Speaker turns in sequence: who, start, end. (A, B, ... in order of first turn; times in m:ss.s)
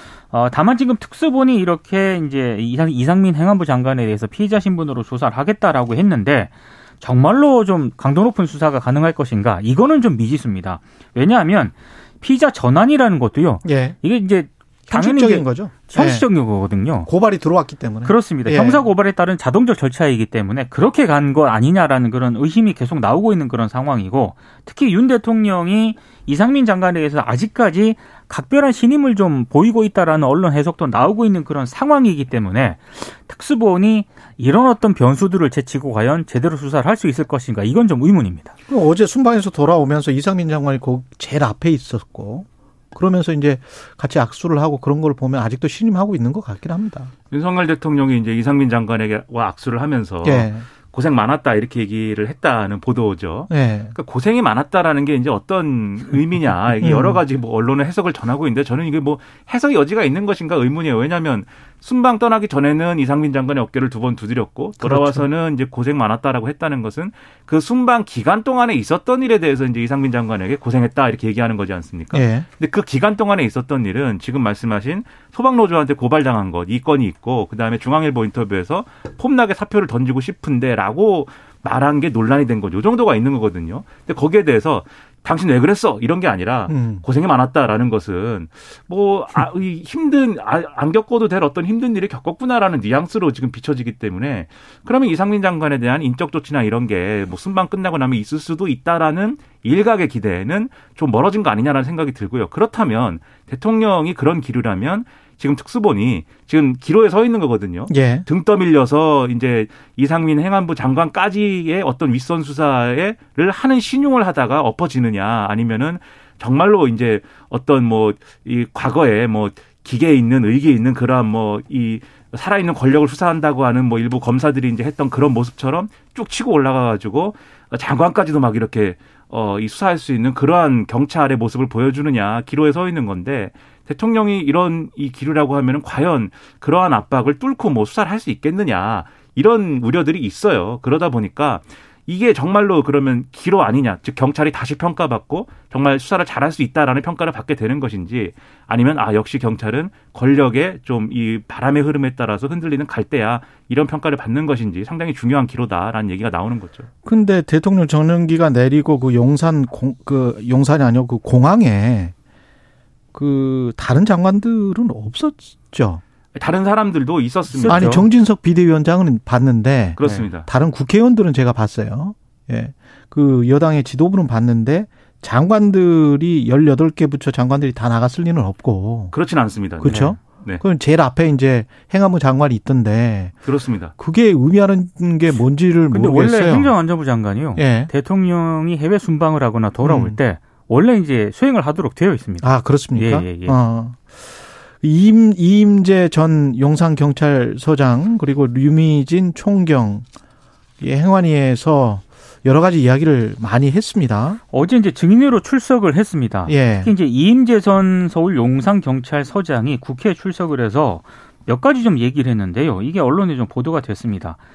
0:00.3-0:17.1 A
0:13.6-0:14.0 B
0:14.9-0:16.2 B
0:17.1-0:18.8 B
0:18.0-0:38.5 A
0:38.7-0:47.1 B
0:47.3-2:36.9 C
0:50.2-0:50.6 B
0:53.5-0:53.9 B
0:56.8-0:57.2 B
1:04.8-1:05.2 B
1:12.1-1:12.4 B
1:26.7-1:27.0 B
1:47.9-1:48.2 B
2:37.0-2:42.1 B
2:43.1-2:46.0 B
2:46.4-2:48.0 C
2:47.5-2:48.0 A
2:47.7-2:59.1 B
2:50.0-2:50.5 C
2:59.1-3:00.6 C
2:59.8-3:03.3 B
2:59.9-3:00.2 A
3:03.4-3:03.9 C
3:04.0-3:06.7 B
3:05.9-3:13.5 A
3:07.6-3:07.9 B
3:09.8-3:10.2 B
3:12.4-3:14.2 B
3:14.8-3:20.0 B
3:20.8-3:24.4 B
3:24.5-3:34.4 A
3:26.5-3:26.9 B